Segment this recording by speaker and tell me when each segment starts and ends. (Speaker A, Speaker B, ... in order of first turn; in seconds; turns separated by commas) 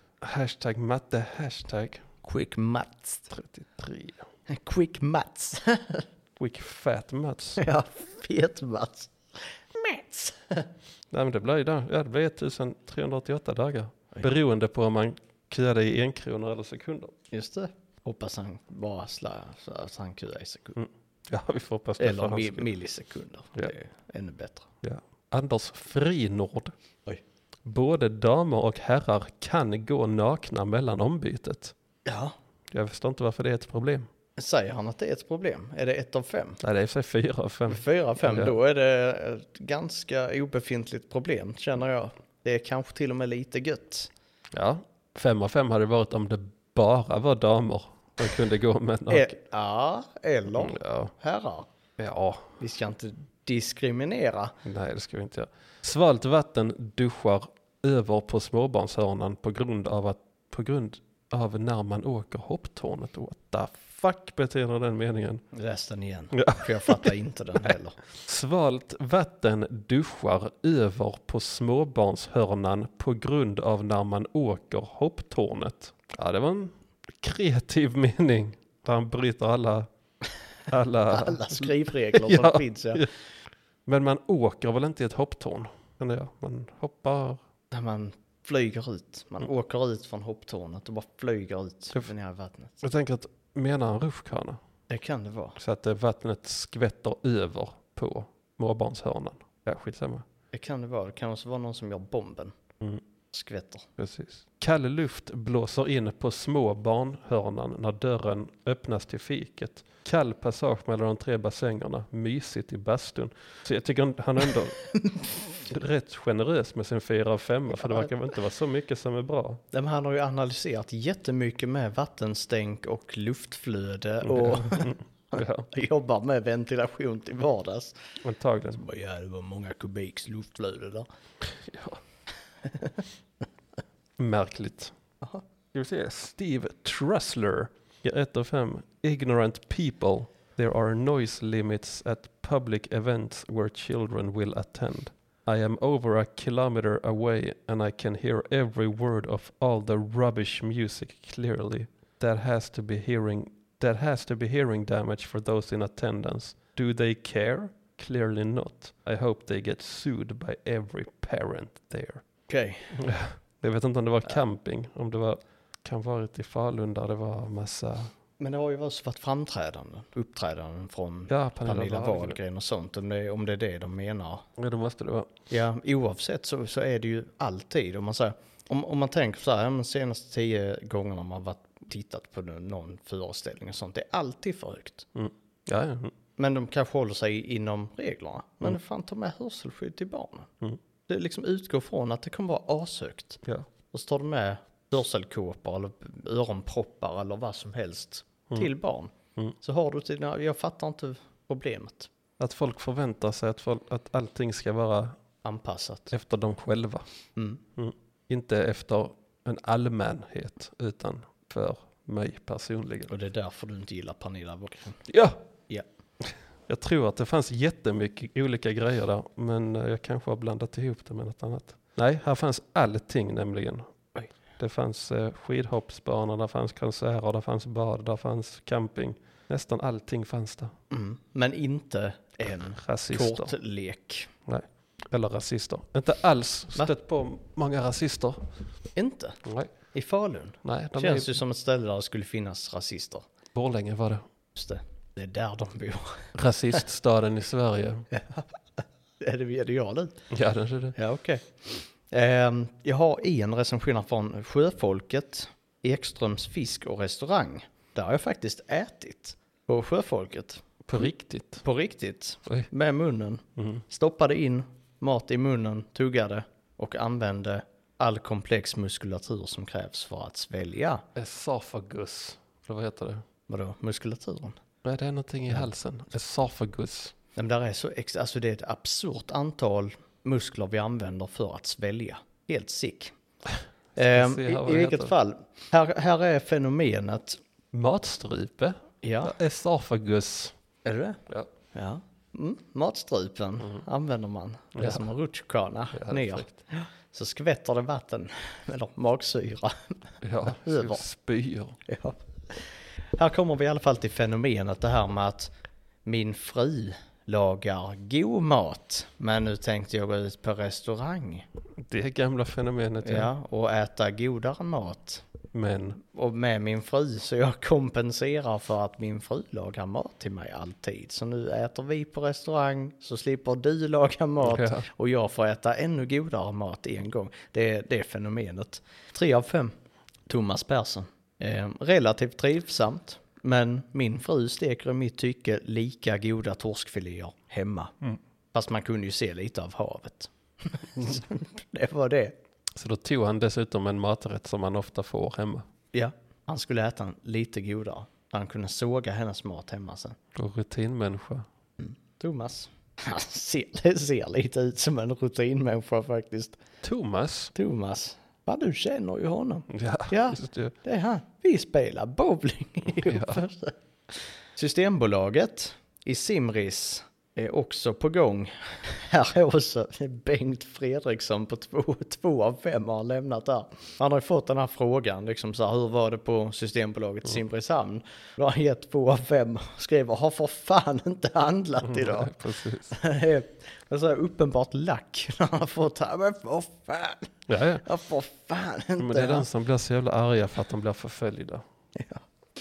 Speaker A: 0.2-2.0, Speaker B: 2.2-3.3, Speaker A: 3.3-4.2, Speaker B: 4.5-6.0, Speaker A: 6.4-7.6, Speaker B: 7.6-10.7, Speaker A: 11.1-17.1, Speaker B: 17.3-20.8, Speaker A: 20.8-22.7, Speaker B: 22.0-24.7, Speaker A: 24.8-26.7, Speaker A: 27.6-31.7, Speaker B: 32.0-32.3, Speaker A: 32.7-34.1, Speaker B: 34.4-36.6, Speaker A: 36.6-38.6, Speaker B: 37.7-44.1, Speaker A: 44.5-49.3, Speaker B: 49.1-51.7, Speaker A: 50.5-51.1, Speaker A: 52.0-52.6, Speaker B: 52.6-54.5, Speaker A: 54.6-65.4, Speaker B: 65.5-68.0, Speaker A: 66.3-67.1, Speaker A: 67.6-79.9, Speaker A: 80.7-83.1, Speaker B: 81.1-83.1, Speaker A: 83.8-87.4, Speaker B: 87.7-92.8, Speaker A: 92.8-94.6, Speaker B: 94.9-95.5, Speaker A: 95.6-100.2, Speaker B: 100.5-102.6, Speaker B: 103.3-103.9, Speaker A: 104.0-114.8, Speaker B: 115.0-115.2, Speaker A: 115.7-119.6, Speaker B: 117.8-118.0, Speaker B: 119.7-127.9, Speaker A: 124.2-125.7, Speaker A: 128.2-128.8, Speaker B: 128.7-131.1, Speaker A: 131.4-132.0, Speaker B: 132.7-133.0, Speaker A: 134.2-134.9, Speaker A: 135.7-162.2, Speaker B: 162.5-163.0, Speaker A: 162.9-168.1, Speaker B: 168.4-174.4, Speaker A: 171.3-172.4, Speaker A: 174.6-175.3, Speaker B: 175.5-185.1, Speaker A: 185.1-186.1, Speaker B: 186.4-190.5, Speaker B: 191.1-193.4, Speaker B: 193.9-202.1, Speaker A: 202.4-205.2, Speaker B: 205.4-206.1, Speaker A: 206.1-207.1, Speaker A: 207.8-213.1, Speaker B: 213.1-215.0, Speaker A: 215.1-215.4, Speaker A: 216.2-223.8, Speaker A: 224.6-230.7, Speaker B: 230.9-234.3, Speaker A: 232.8-233.5, Speaker A: 234.4-238.5, Speaker B: 238.9-239.4, Speaker A: 239.4-239.7, Speaker B: 239.9-243.2, Speaker A: 240.6-241.3, Speaker A: 243.5-244.2, Speaker B: 244.5-246.3, Speaker A: 246.3-248.1, Speaker B: 248.1-250.2, Speaker A: 250.3-251.0, Speaker B: 250.9-261.1, Speaker A: 260.9-261.6, Speaker B: 261.6-271.0, Speaker A: 263.6-263.8, Speaker A: 271.1-273.2, Speaker B: 273.5-274.6, Speaker A: 274.8-277.1, Speaker B: 277.4-283.1, Speaker B: 283.9-287.4, Speaker A: 284.1-285.1, Speaker A: 287.7-290.5, Speaker B: 289.0-289.3, Speaker B: 290.8-291.2, Speaker B: 291.7-301.0, Speaker A: 294.7-295.0, Speaker A: 295.9-296.6, Speaker A: 300.2-301.8, Speaker B: 301.9-305.5, Speaker B: 306.0-311.4, Speaker A: 311.8-313.3, Speaker B: 313.0-315.2, Speaker A: 315.5-316.0, Speaker B: 316.0-329.7, Speaker A: 324.4-324.9, Speaker B: 330.3-337.9, Speaker B: 338.5-342.3, Speaker A: 342.7-345.6, Speaker B: 345.9-350.2, Speaker A: 350.3-351.4, Speaker B: 351.8-356.6, Speaker A: 356.8-357.5, Speaker B: 357.5-363.8, Speaker A: 359.7-360.7, Speaker A: 362.9-363.4, Speaker B: 364.6-389.5, Speaker A: 381.8-382.9, Speaker A: 387.5-387.8, Speaker A: 389.0-391.6, Speaker B: 391.9-392.2